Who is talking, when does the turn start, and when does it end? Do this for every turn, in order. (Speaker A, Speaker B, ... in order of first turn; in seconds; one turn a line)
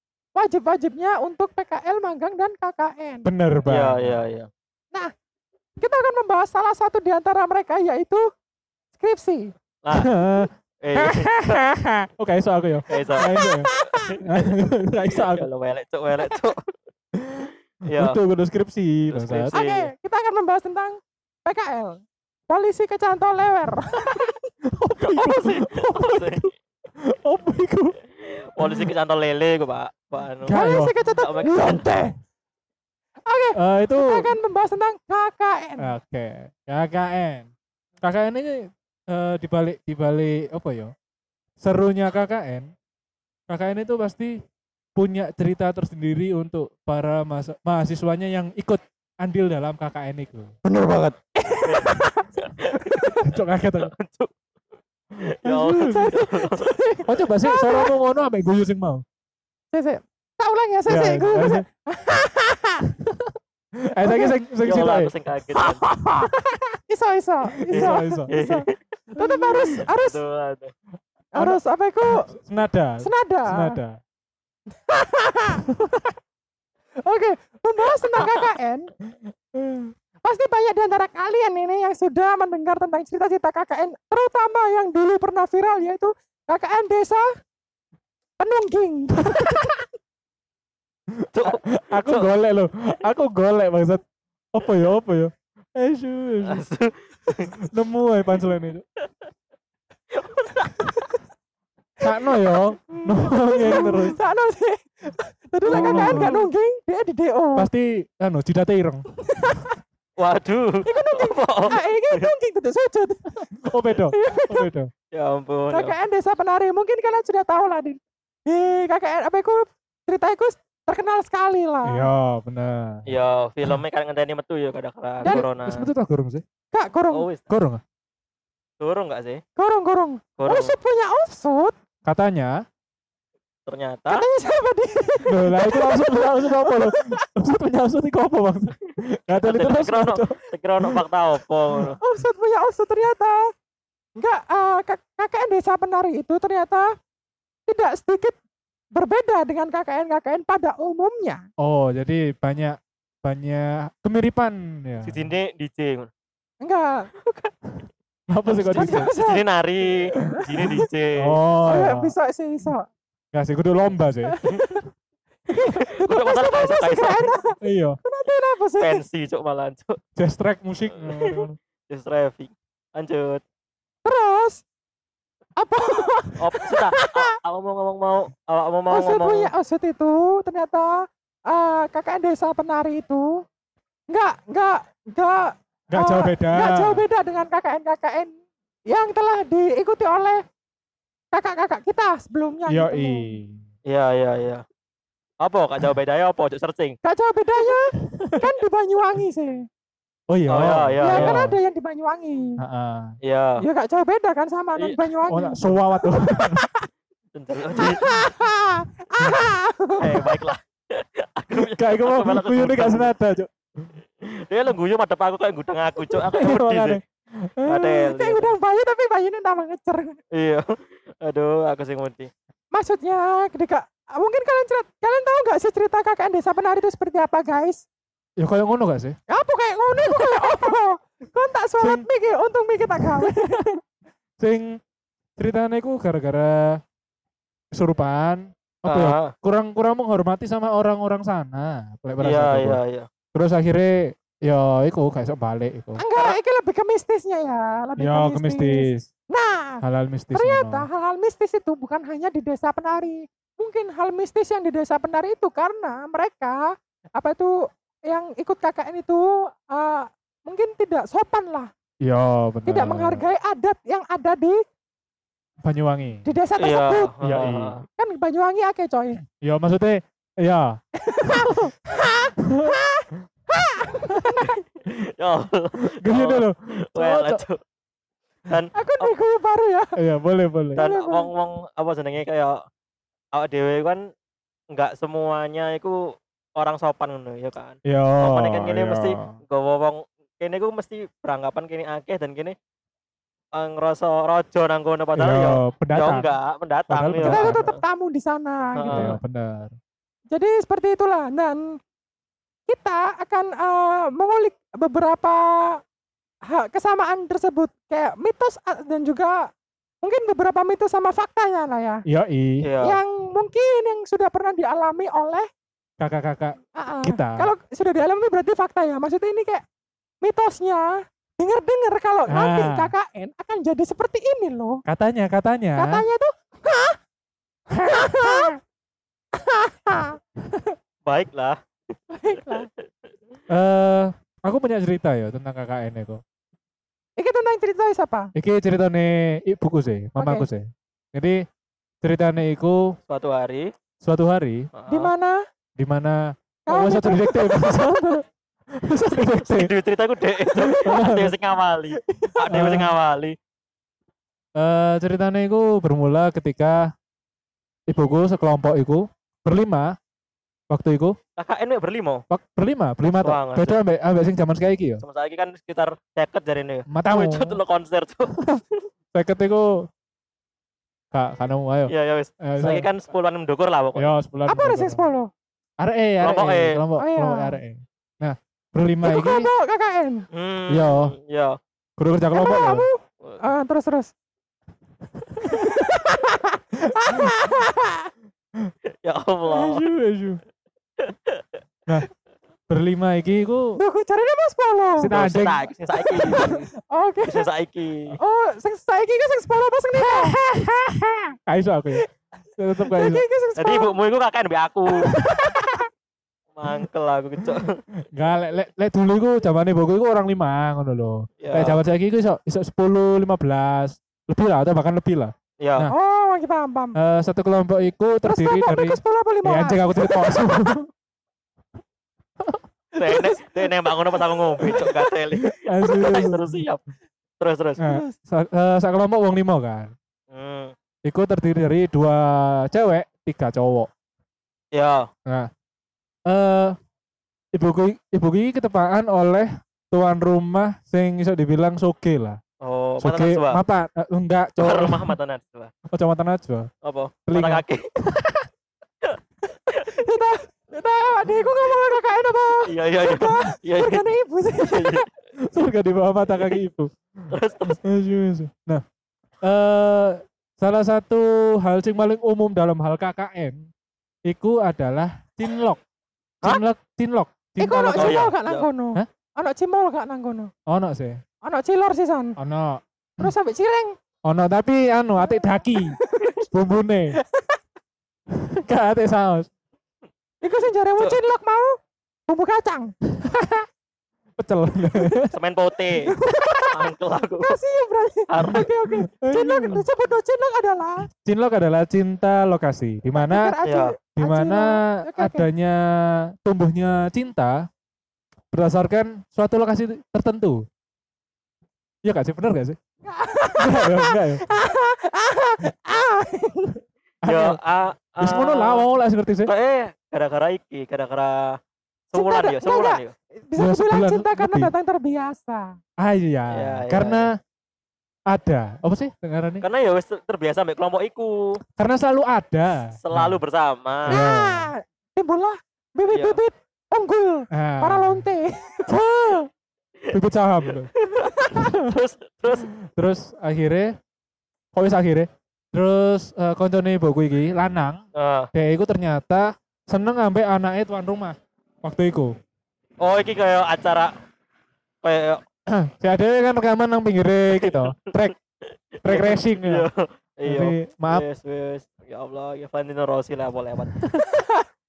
Speaker A: 0.3-3.3
Speaker B: 3.2-4.2
Speaker C: 3.7-4.5
Speaker A: 5.8-8.2
Speaker A: 8.9-9.5
Speaker C: 9.8-10.2
Speaker B: 9.9-15.4
Speaker C: 10.8-11.6
Speaker C: 12.9-14.5
Speaker A: 13.4-14.2
Speaker C: 15.2-16.7
Speaker B: 17.1-19.5
Speaker C: 17.8-18.2
Speaker C: 19.1-19.9
Speaker A: 19.5-24.4
Speaker B: 24.7-28.0
Speaker C: 25.0-26.5
Speaker C: 28.2-30.6
Speaker B: 28.6-28.9
Speaker B: 30.4-32.2
Speaker A: 30.5-31.6
Speaker C: 31.2-31.9
Speaker A: 33.3-35.9
Speaker B: 33.5-34.3
Speaker B: 35.8-37.5
Speaker B: 38.0-40.9
Speaker B: 41.6-42.7
Speaker B: 43.5-44.4
Speaker B: 45.0-51.1
Speaker A: 51.4-52.3
Speaker C: 51.6-53.3
Speaker A: 52.9-53.2
Speaker B: 53.2-53.9
Speaker C: 53.8-54.3
Speaker C: 55.2-56.8
Speaker B: 55.4-56.1
Speaker A: 55.7-57.9
Speaker B: 57.1-59.0
Speaker A: 59.7-62.9
Speaker B: 60.9-61.7
Speaker B: 62.9-65.1
Speaker A: 64.0-64.3
Speaker C: 64.6-65.9
Speaker B: 65.6-66.3
Speaker A: 66.2-68.7
Speaker B: 67.7-68.3
Speaker C: 67.7-70.7
Speaker A: 69.2-70.2
Speaker A: 71.3-72.3
Speaker B: 71.4-74.0
Speaker A: 73.0-73.8
Speaker A: 74.8-75.7
Speaker B: 75.8-76.1
Speaker A: 77.0-78.9
Speaker C: 78.2-78.4
Speaker B: 79.5-79.9
Speaker A: 80.2-87.3
Speaker A: 88.4-89.8
Speaker B: 89.3-89.7
Speaker B: 91.1-96.6
Speaker C: 91.3-92.3
Speaker C: 96.5-97.6
Speaker B: 97.6-98.8
Speaker C: 100.1-100.8
Speaker B: 102.0-104.2
Speaker A: 102.9-107.7
Speaker B: 105.7-106.4
Speaker C: 105.7-106.3
Speaker B: 107.6-109.0
Speaker A: 109.2-109.8
Speaker C: 110.2-112.3
Speaker A: 110.8-113.5
Speaker B: 113.6-114.9
Speaker A: 114.1-114.7
Speaker C: 115.1-116.0
Speaker A: 115.7-122.1
Speaker B: 121.8-123.1
Speaker C: 123.1-125.9
Speaker B: 125.2-126.4
Speaker A: 126.7-127.2
Speaker C: 127.1-127.4
Speaker B: 127.5-127.8
Speaker C: 128.8-129.4
Speaker A: 129.6-131.8
Speaker C: 130.4-130.8
Speaker B: 132.1-132.6
Speaker C: 133.7-134.2
Speaker A: 134.1-137.2
Speaker B: 135.3-141.0
Speaker C: 139.3-142.0
Speaker A: 142.0-143.4
Speaker A: 144.2-146.9
Speaker A: 147.7-148.4
Speaker A: 148.9-151.4
Speaker B: 151.6-155.3
Speaker C: 155.1-156.1
Speaker A: 156.6-157.3
Speaker B: 158.3-159.1
Speaker C: 158.6-161.4
Speaker A: 158.6-159.5
Speaker A: 160.1-160.8
Speaker B: 160.6-162.1
Speaker A: 161.7-162.9
Speaker B: 163.3-164.4
Speaker A: 164.2-164.9
Speaker A: 165.5-169.0
Speaker C: 165.8-167.3
Speaker B: 167.6-168.0
Speaker C: 168.8-170.0
Speaker B: 170.2-171.6
Speaker C: 171.1-173.4
Speaker A: 174.1-174.6
Speaker A: 175.6-177.3
Speaker C: 176.4-179.5
Speaker A: 178.9-183.4
Speaker A: 184.1-188.3
Speaker B: 185.9-187.0
Speaker A: 188.9-190.4
Speaker A: 191.3-193.2
Speaker B: 192.7-193.6
Speaker C: 193.9-194.6
Speaker C: 195.4-197.0
Speaker A: 197.0-199.7
Speaker B: 198.0-198.5
Speaker B: 200.3-201.6
Speaker C: 200.5-201.4
Speaker A: 201.0-202.6
Speaker B: 202.6-203.2
Speaker C: 203.2-203.7
Speaker A: 203.6-206.9
Speaker B: 205.3-206.7
Speaker C: 207.3-208.0
Speaker A: 207.8-210.4
Speaker C: 210.0-213.1
Speaker B: 211.5-213.9
Speaker C: 214.2-217.0
Speaker B: 216.1-217.9
Speaker C: 217.7-218.5
Speaker A: 217.8-220.2
Speaker C: 220.3-222.3
Speaker A: 222.7-227.8
Speaker B: 228.4-229.2
Speaker A: 229.3-233.7
Speaker B: 231.8-232.1
Speaker B: 233.0-233.6
Speaker B: 234.4-234.8
Speaker B: 235.4-236.8
Speaker B: 237.7-242.8
Speaker C: 238.9-239.3
Speaker C: 242.2-243.1
Speaker B: 243.3-246.0
Speaker A: 246.0-249.8
Speaker B: 248.0-249.1
Speaker B: 249.8-250.9
Speaker A: 250.3-261.7
Speaker B: 262.0-263.3
Speaker A: 262.7-264.6
Speaker B: 265.6-266.2
Speaker A: 266.2-267.2
Speaker C: 266.6-267.8
Speaker B: 267.2-267.8
Speaker A: 268.0-269.2
Speaker B: 269.4-271.6
Speaker A: 271.0-274.6
Speaker B: 272.4-272.8
Speaker C: 274.4-277.6
Speaker B: 276.0-277.4
Speaker C: 278.5-279.1
Speaker A: 278.7-279.9
Speaker B: 280.0-280.8
Speaker A: 280.8-281.3
Speaker C: 280.8-282.6
Speaker C: 283.3-284.1
Speaker C: 284.7-292.6
Speaker B: 287.9-289.4
Speaker C: 293.5-297.8
Speaker B: 295.1-296.3
Speaker B: 296.9-297.6
Speaker A: 297.2-299.1
Speaker C: 298.8-299.1
Speaker B: 298.9-299.7
Speaker A: 300.3-301.8
Speaker A: 302.7-305.8
Speaker A: 306.5-309.5
Speaker A: 310.0-312.0
Speaker B: 312.1-312.7
Speaker C: 312.6-313.0
Speaker A: 312.8-315.5
Speaker B: 316.0-317.5
Speaker A: 316.8-319.6
Speaker A: 320.2-324.8
Speaker B: 322.3-322.9
Speaker B: 324.9-326.1
Speaker A: 325.8-327.0
Speaker B: 327.7-328.6
Speaker A: 327.9-328.6
Speaker A: 329.3-330.2
Speaker C: 331.1-331.6
Speaker A: 332.1-332.7
Speaker B: 333.5-336.2
Speaker A: 337.2-338.3
Speaker B: 338.4-341.4
Speaker A: 340.2-340.5
Speaker B: 342.0-343.0
Speaker C: 343.1-343.7
Speaker B: 344.0-344.7
Speaker C: 344.8-345.1
Speaker A: 344.9-345.4
Speaker B: 345.8-349.7
Speaker A: 346.7-348.2
Speaker C: 349.1-353.4
Speaker B: 350.5-351.3
Speaker A: 352.1-352.4
Speaker B: 352.5-352.9
Speaker B: 354.6-356.9
Speaker B: 357.9-360.0
Speaker B: 360.7-361.2
Speaker C: 361.4-362.2
Speaker B: 362.3-365.0
Speaker C: 363.2-363.8
Speaker C: 365.0-368.8
Speaker B: 366.9-367.6
Speaker B: 368.4-368.6
Speaker B: 369.1-369.9
Speaker B: 371.1-372.9
Speaker C: 371.9-374.1
Speaker B: 374.0-375.0
Speaker A: 374.5-375.3
Speaker B: 375.8-379.5
Speaker C: 376.2-376.8
Speaker A: 377.0-377.6
Speaker A: 379.0-380.3
Speaker C: 380.3-381.6
Speaker B: 380.7-381.1
Speaker B: 382.0-382.9
Speaker A: 382.3-384.1
Speaker B: 385.2-385.8
Speaker A: 385.4-388.1
Speaker B: 387.1-387.4
Speaker C: 389.0-389.9
Speaker B: 389.5-390.4
Speaker C: 391.0-391.4
Speaker B: 392.7-393.8
Speaker A: 393.8-395.1
Speaker B: 395.0-395.7
Speaker C: 395.1-396.7
Speaker A: 396.1-397.5
Speaker C: 397.2-398.2
Speaker A: 398.2-400.4
Speaker B: 400.0-402.1
Speaker B: 402.6-403.2
Speaker A: 402.8-404.0
Speaker C: 403.6-405.2
Speaker A: 405.0-405.9
Speaker C: 406.6-407.8
Speaker B: 408.1-415.9
Speaker C: 411.4-411.8
Speaker C: 415.6-415.9
Speaker A: 415.9-417.0
Speaker B: 417.0-420.9
Speaker A: 418.2-420.5
Speaker B: 422.4-423.3
Speaker C: 423.0-426.8
Speaker B: 424.6-426.5
Speaker C: 427.4-427.8
Speaker B: 427.8-429.9
Speaker A: 427.8-428.1
Speaker C: 430.3-430.7
Speaker B: 431.1-433.9
Speaker C: 434.7-435.1
Speaker B: 436.3-436.8
Speaker B: 437.5-442.4
Speaker C: 442.6-443.6
Speaker B: 443.0-445.1
Speaker C: 444.6-445.7
Speaker B: 445.9-446.7
Speaker C: 446.8-447.9
Speaker B: 447.3-448.3
Speaker A: 449.7-455.1
Speaker C: 452.6-454.1
Speaker C: 454.6-455.1
Speaker B: 455.4-458.8
Speaker C: 457.3-457.8
Speaker B: 459.4-463.7
Speaker B: 464.3-465.8
Speaker B: 466.4-468.3
Speaker A: 467.6-470.5
Speaker C: 468.0-468.7
Speaker B: 470.7-471.2
Speaker A: 471.4-472.4
Speaker B: 472.4-473.3
Speaker A: 473.2-474.0
Speaker B: 474.2-477.2
Speaker A: 475.2-476.5
Speaker A: 477.2-477.6
Speaker B: 478.3-479.5
Speaker A: 480.4-481.8
Speaker A: 482.3-482.9
Speaker B: 483.2-483.5
Speaker B: 484.4-485.3
Speaker A: 484.9-485.2
Speaker C: 485.3-487.6
Speaker A: 485.9-491.1
Speaker C: 488.3-488.7
Speaker B: 488.4-489.9
Speaker B: 491.1-493.6
Speaker A: 493.1-495.5
Speaker C: 493.6-493.9
Speaker B: 494.2-497.7
Speaker B: 498.5-500.7
Speaker B: 502.0-502.8
Speaker A: 503.1-506.8
Speaker B: 503.6-504.4
Speaker B: 507.2-507.6
Speaker C: 507.3-508.9
Speaker B: 508.2-509.5
Speaker C: 509.5-511.6
Speaker C: 512.1-513.1
Speaker A: 512.1-515.8
Speaker B: 513.6-514.7
Speaker B: 516.0-517.3
Speaker C: 516.5-517.3
Speaker B: 518.3-519.6
Speaker C: 519.6-521.6
Speaker B: 521.8-523.4
Speaker C: 523.0-524.2
Speaker B: 524.1-524.7
Speaker A: 524.1-529.4
Speaker C: 526.1-526.4
Speaker B: 527.5-528.3
Speaker B: 530.1-530.9
Speaker C: 530.7-532.7
Speaker A: 531.3-531.6
Speaker B: 531.6-531.9
Speaker B: 532.5-534.0
Speaker B: 534.7-538.0
Speaker C: 538.1-538.5
Speaker B: 538.5-542.4
Speaker C: 543.0-544.1
Speaker C: 545.0-545.4
Speaker B: 545.7-548.4
Speaker C: 547.5-548.3
Speaker C: 549.0-554.0
Speaker B: 549.0-549.9
Speaker B: 550.5-551.2
Speaker B: 554.0-554.2
Speaker A: 554.2-554.6